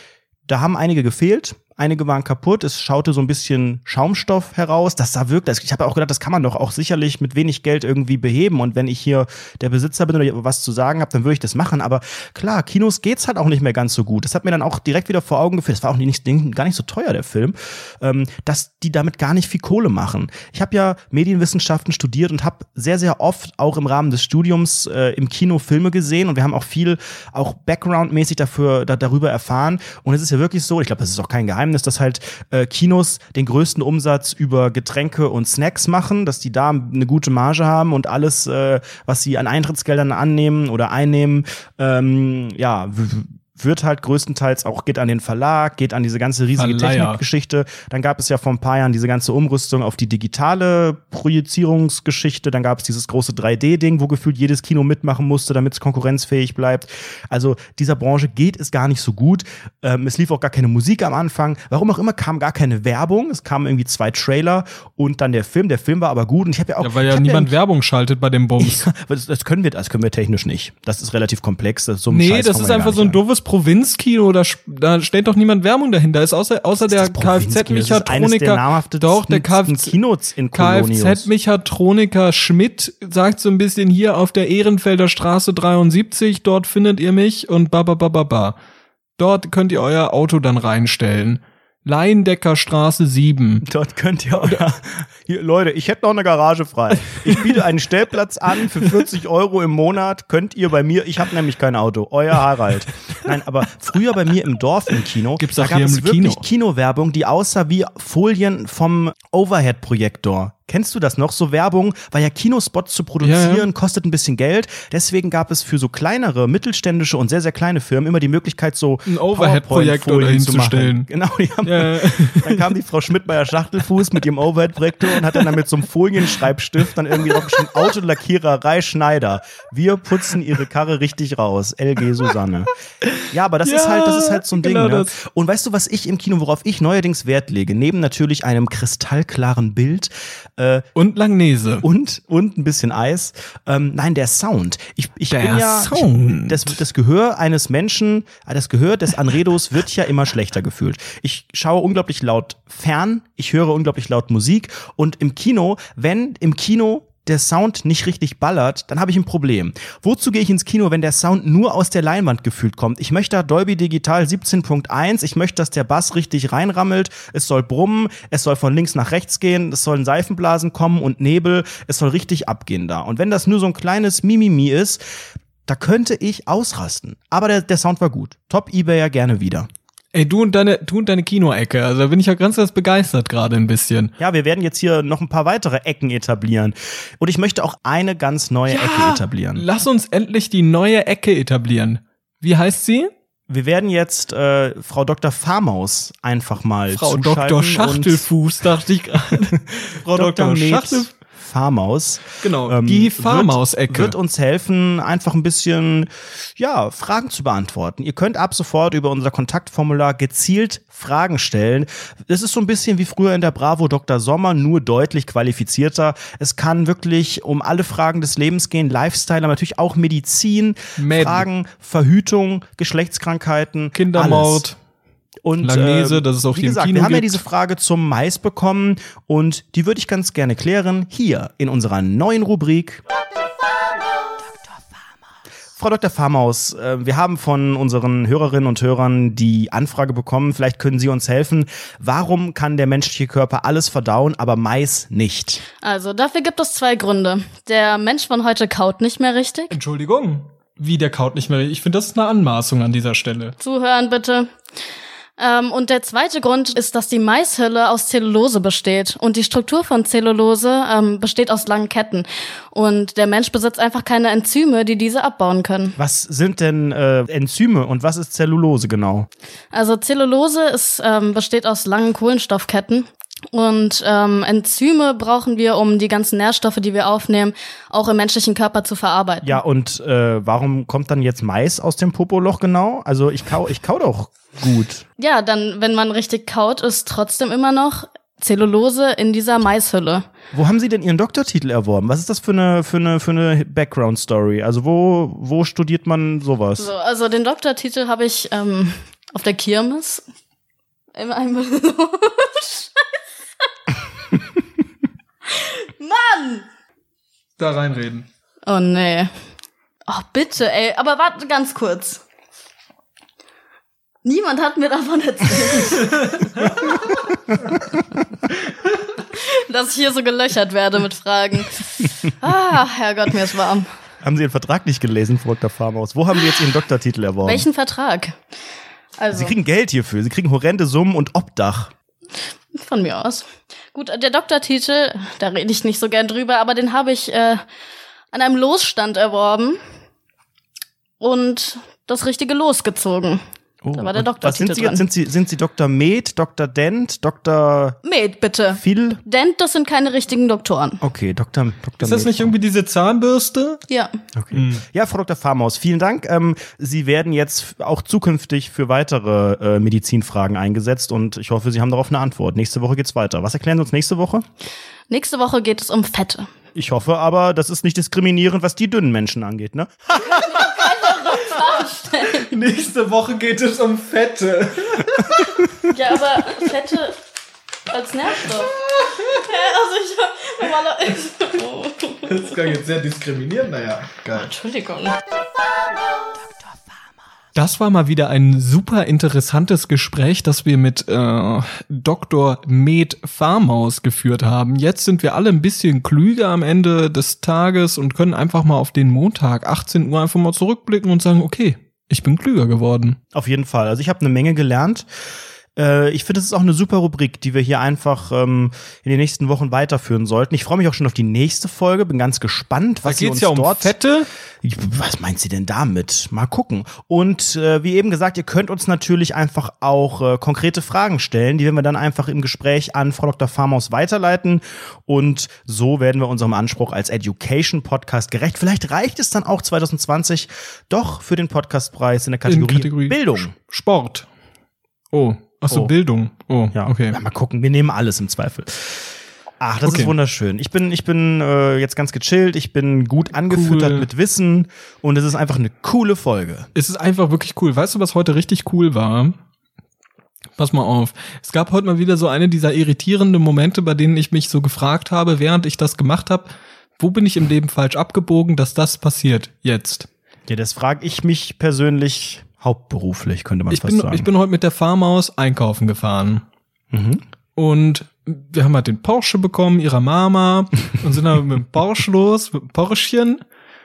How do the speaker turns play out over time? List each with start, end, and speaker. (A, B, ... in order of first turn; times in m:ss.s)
0:00.5-1:07.5 A
0:46.6-0:47.2 B
1:06.8-1:08.9 B
1:08.6-1:13.2 A
1:12.1-1:19.9 B
1:16.9-1:21.3 A
1:20.5-1:28.6 B
1:29.2-1:33.6 B
1:33.6-2:12.7 A
1:45.4-1:46.4 B
1:53.2-1:53.7 B
1:59.0-2:01.1 B
2:01.6-2:02.6 B
2:13.0-2:15.2 B
2:13.3-2:20.8 A
2:20.9-2:21.8 B
2:21.8-2:55.0 A
2:25.3-2:26.8 B
2:55.7-2:59.7 A
3:00.1-3:04.1 B
3:04.2-3:09.6 A
3:08.7-3:13.1 B
3:13.5-3:18.3 A
3:16.9-3:21.1 B
3:19.5-3:44.6 A
3:22.4-3:24.1 B
3:41.0-3:41.5 B
3:43.9-3:44.8 B
3:45.4-3:53.0 A
3:45.6-3:47.4 B
3:55.8-4:05.6 A
4:05.8-4:09.7 C
4:09.7-4:13.5 B
4:13.6-4:14.5 C
4:15.4-4:26.0 C
4:26.0-4:29.3 A
4:29.7-4:39.6 C
4:39.4-4:45.0 A
4:45.2-4:50.3 C
4:50.5-4:56.9 A
4:56.8-5:00.2 C
5:01.1-5:03.2 C
5:05.4-5:06.7 C
5:07.6-5:08.3 B
5:08.6-5:09.3 C
5:10.1-5:12.2 C
5:14.2-5:17.3 C
5:15.9-5:16.9 B
5:19.1-5:23.9 C
5:24.2-5:27.7 A
5:27.4-5:28.4 C
5:29.2-5:29.5 C
5:29.3-5:31.9 A
5:32.7-5:37.6 C
5:38.3-5:39.8 C
5:41.2-5:43.4 C
5:43.8-5:48.0 A
5:44.0-5:45.0 C
5:48.0-5:51.0 C
5:48.7-5:49.2 A
5:51.0-5:52.5 A
5:52.0-5:53.8 B
5:53.9-5:54.2 C
5:54.3-6:04.4 A
5:54.5-5:54.8 B
6:05.1-6:06.5 C
6:06.7-6:10.5 A
6:10.3-6:12.5 C
6:10.5-6:11.6 B
6:12.4-6:15.8 B
6:15.9-6:17.2 C
6:17.9-6:22.6 C
6:19.0-6:19.4 B
6:22.2-6:24.5 B
6:24.3-6:25.2 C
6:27.5-6:43.2 B
6:43.3-6:45.1 A
6:45.8-6:53.9 A
6:53.0-6:54.3 B
6:54.6-7:13.5 A
7:12.4-7:14.3 B
7:15.1-7:17.2 B
7:16.7-7:26.7 A
7:19.8-7:20.1 B
7:23.5-7:24.1 B
7:26.7-7:29.4 B
7:30.6-7:40.1 B
7:40.5-7:44.3 A
7:43.7-7:46.4 B
7:46.9-7:47.2 A
7:47.6-7:53.4 B